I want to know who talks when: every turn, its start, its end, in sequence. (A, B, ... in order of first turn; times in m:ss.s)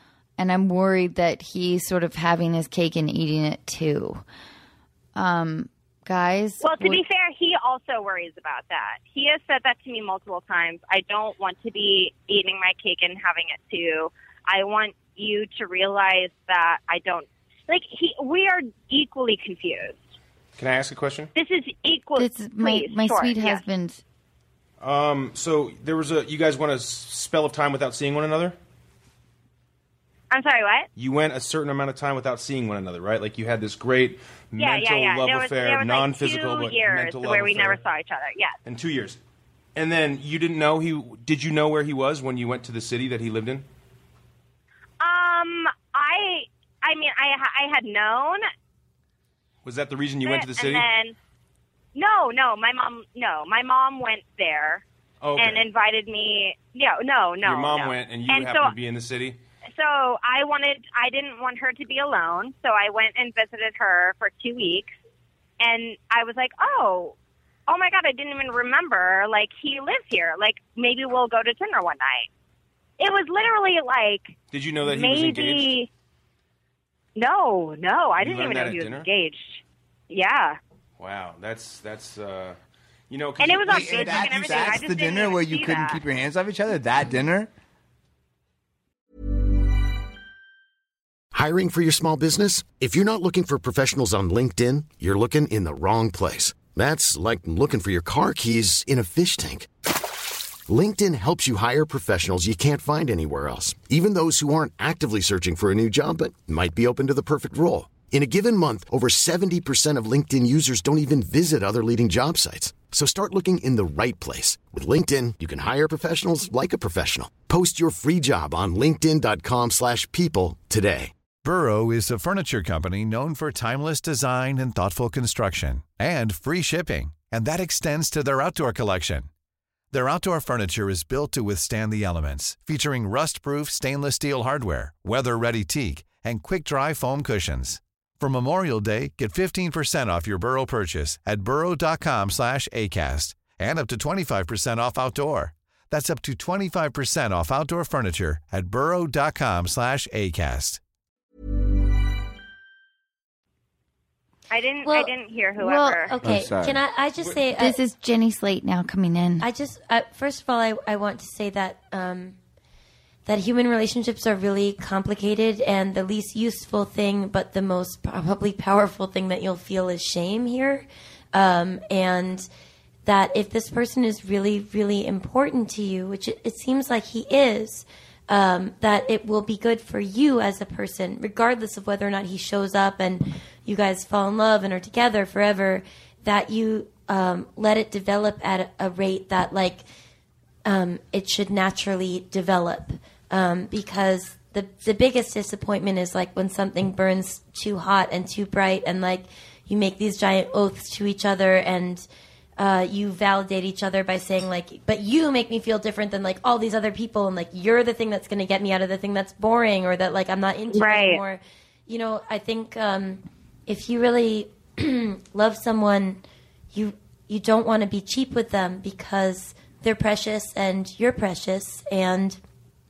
0:00.4-0:04.2 A
0:05.1-0:07.0 A
0:06.6-0:20.0 B
0:20.6-0:21.3 C
0:21.4-0:23.6 B
0:22.2-0:24.0 A
0:24.8-0:28.6 C
0:30.3-0:30.9 B
0:31.0-0:37.8 C
0:34.6-0:38.6 B
0:38.6-0:39.2 C
0:39.8-0:43.6 C
0:45.0-0:48.4 B
0:49.6-0:50.9 C
0:50.2-0:51.1 B
0:52.0-0:54.8 B
0:55.2-0:55.7 C
0:55.4-0:58.7 B
0:57.4-0:59.4 C
0:59.8-1:04.9 B
1:05.6-1:07.1 B
1:07.7-1:12.3 B
1:13.0-1:15.9 B
1:14.5-1:15.7 C
1:17.2-1:20.6 B
1:18.2-1:19.1 C
1:21.0-1:22.6 C
1:23.1-1:24.8 C
1:23.4-1:26.0 B
1:23.7-1:27.5 D
1:31.3-1:39.7 E
1:40.7-2:01.1 E
2:01.4-2:09.3 F
2:09.9-2:30.8 F
2:34.5-2:36.1 B
2:34.8-2:35.1 G
2:35.6-2:36.0 A
2:36.1-2:37.8 G
2:36.2-2:36.8 D
2:37.5-2:39.5 A
2:39.4-2:42.4 G
2:43.3-2:52.5 G
2:53.0-3:09.8 G
3:10.6-3:22.1 G
3:22.6-3:36.2 G
3:30.7-3:31.2 B
3:36.7-3:42.4 G